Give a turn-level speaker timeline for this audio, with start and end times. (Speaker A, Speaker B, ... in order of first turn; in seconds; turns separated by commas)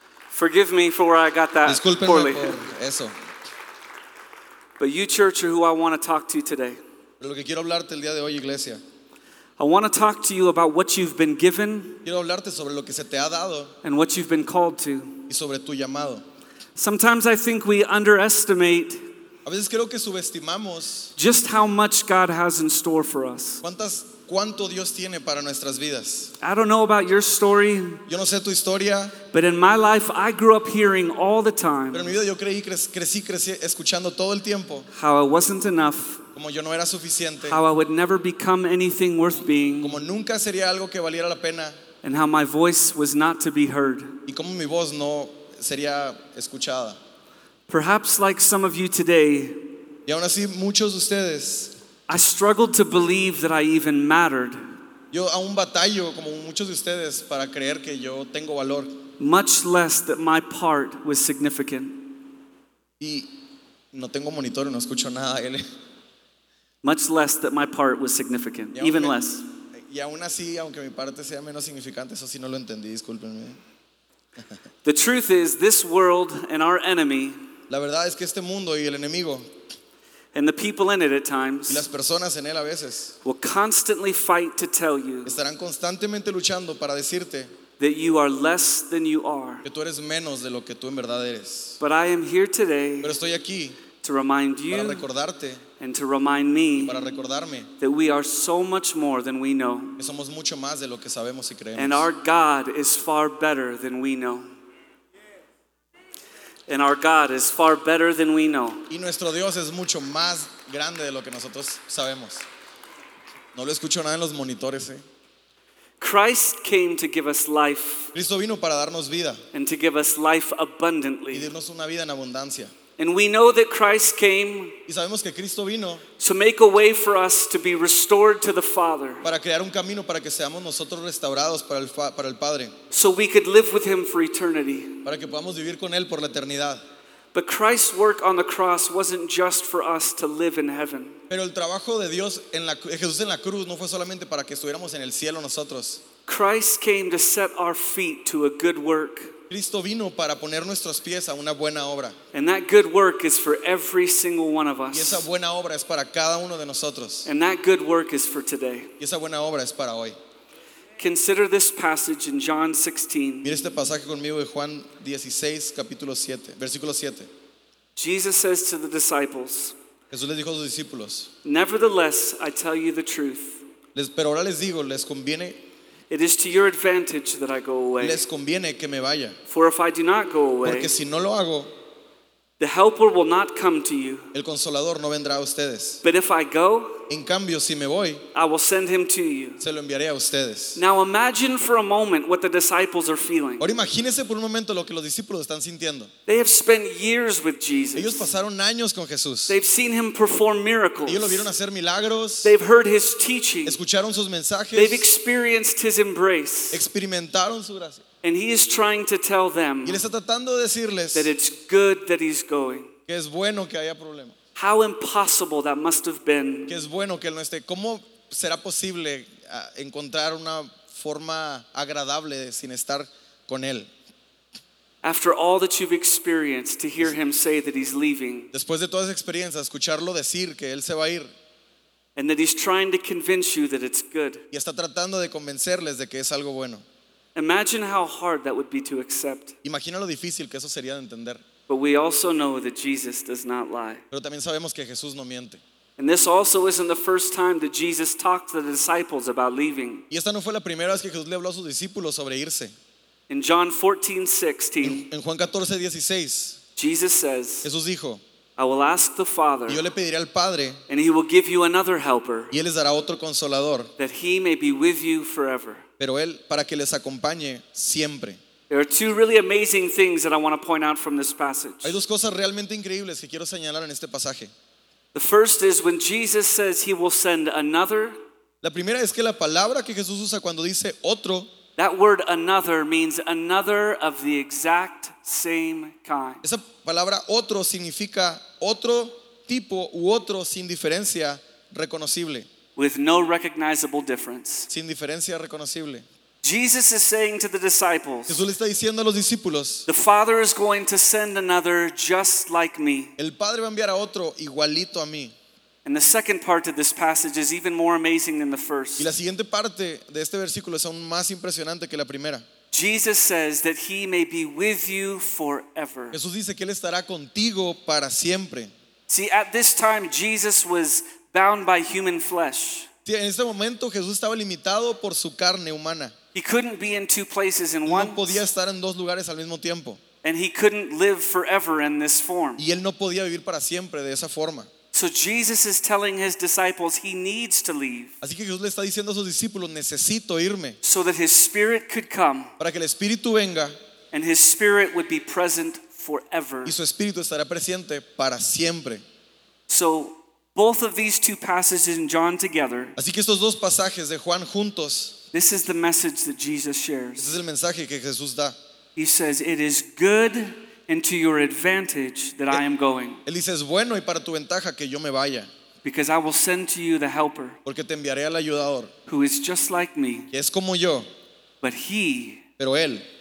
Speaker A: 0.3-2.5, Speaker B: 1.7-3.1, Speaker A: 4.8-6.8, Speaker B: 7.2-8.8, Speaker A: 9.6-12.0, Speaker B: 12.1-13.7, Speaker A: 13.8-15.3, Speaker B: 15.3-16.2, Speaker A: 16.8-19.1, Speaker B: 19.4-21.1, Speaker A: 21.2-23.6, Speaker B: 23.6-26.3, Speaker A: 26.4-28.1, Speaker B: 28.1-29.2, Speaker A: 29.3-32.1, Speaker B: 31.9-34.9, Speaker A: 34.9-36.2, Speaker B: 36.4-37.6, Speaker A: 37.4-40.0, Speaker B: 39.8-41.8, Speaker A: 42.0-44.2, Speaker B: 44.3-47.0, Speaker A: 47.7-49.6, Speaker B: 50.1-51.7, Speaker A: 52.1-54.6, Speaker B: 55.1-59.0, Speaker A: 59.2-62.1, Speaker B: 63.0-63.3, Speaker B: 63.9-65.6, Speaker A: 66.8-69.5, Speaker B: 68.8-69.2, Speaker B: 69.7-73.6, Speaker A: 74.8-77.4, Speaker B: 77.7-79.5, Speaker A: 80.3-81.9, Speaker B: 81.7-83.2, Speaker A: 83.2-85.3, Speaker B: 85.2-87.5, Speaker A: 87.8-89.7, Speaker B: 89.7-91.8, Speaker A: 91.8-93.2, Speaker B: 93.0-93.8, Speaker A: 94.0-95.1, Speaker B: 94.7-95.6, Speaker A: 95.8-97.0, Speaker B: 96.8-97.7, Speaker A: 97.8-100.0, Speaker B: 100.0-102.1, Speaker A: 101.8-104.5, Speaker A: 106.7-108.9, Speaker B: 108.9-112.5, Speaker B: 113.5-115.0, Speaker A: 116.0-118.1, Speaker B: 118.1-119.4, Speaker A: 119.5-121.5, Speaker B: 121.3-122.7, Speaker A: 123.0-124.8, Speaker B: 124.9-126.0, Speaker A: 126.2-129.3, Speaker B: 129.2-132.7, Speaker A: 132.9-135.1, Speaker B: 135.1-136.8, Speaker A: 137.3-141.2, Speaker B: 141.3-146.0, Speaker A: 146.3-149.3, Speaker B: 149.5-152.2, Speaker A: 152.3-155.3, Speaker B: 154.9-157.3, Speaker A: 157.2-158.9, Speaker B: 159.0-160.2, Speaker A: 161.0-163.6, Speaker B: 163.4-167.3, Speaker A: 168.0-169.8, Speaker B: 170.1-171.3, Speaker A: 171.4-173.6, Speaker B: 173.9-175.6, Speaker A: 176.1-178.2, Speaker B: 178.0-179.4, Speaker A: 179.5-180.9, Speaker B: 180.6-181.7, Speaker A: 182.6-184.3, Speaker B: 184.3-186.0, Speaker A: 186.0-187.1, Speaker B: 187.1-188.2, Speaker A: 188.3-189.6, Speaker B: 189.6-190.8, Speaker A: 190.8-193.7, Speaker B: 193.6-196.1, Speaker A: 196.3-198.3, Speaker B: 197.9-199.6, Speaker A: 199.5-201.5, Speaker B: 201.1-202.6, Speaker A: 202.4-203.8, Speaker B: 203.7-205.1, Speaker A: 204.7-206.8, Speaker B: 206.7-208.0, Speaker A: 208.2-210.0, Speaker B: 209.8-211.3, Speaker A: 211.1-212.9, Speaker B: 213.1-214.4, Speaker A: 214.6-216.8, Speaker B: 216.7-223.9, Speaker A: 225.0-228.5, Speaker B: 228.5-231.3, Speaker A: 232.2-234.4, Speaker B: 234.5-236.8, Speaker A: 237.3-239.6, Speaker B: 239.6-241.4, Speaker A: 241.7-244.0, Speaker B: 244.1-245.6, Speaker A: 246.0-250.0, Speaker B: 250.1-252.7, Speaker A: 253.3-255.1, Speaker B: 254.8-256.6, Speaker A: 256.8-257.7, Speaker B: 257.6-258.2, Speaker A: 258.6-259.8, Speaker B: 259.7-260.8, Speaker A: 260.9-262.5, Speaker B: 262.5-263.9, Speaker A: 264.0-265.8, Speaker B: 266.0-268.4, Speaker A: 268.7-272.0, Speaker B: 271.8-274.5, Speaker A: 275.1-278.2, Speaker B: 278.6-281.5, Speaker A: 281.8-286.4, Speaker B: 286.4-292.5, Speaker A: 292.8-294.7, Speaker B: 294.7-296.1, Speaker A: 296.4-298.4, Speaker B: 298.3-299.9, Speaker A: 299.9-303.1, Speaker B: 303.2-305.4, Speaker A: 305.9-309.1, Speaker B: 309.0-312.5, Speaker A: 312.7-316.2, Speaker B: 316.1-318.7, Speaker A: 319.1-322.9, Speaker B: 323.1-326.1, Speaker A: 326.3-328.4, Speaker B: 327.9-330.0, Speaker A: 330.2-332.6, Speaker B: 332.6-334.7, Speaker A: 334.9-338.1, Speaker B: 338.2-340.8, Speaker A: 340.8-342.5, Speaker B: 342.6-343.8, Speaker A: 344.1-346.8, Speaker B: 346.7-349.0, Speaker A: 349.7-353.0, Speaker B: 353.0-355.2, Speaker A: 355.3-357.3, Speaker B: 357.2-358.6, Speaker A: 359.0-363.2, Speaker B: 363.3-365.5, Speaker A: 365.8-367.6, Speaker B: 367.6-368.9, Speaker A: 369.1-370.3, Speaker B: 370.3-371.1, Speaker A: 371.6-372.4, Speaker B: 372.6-373.0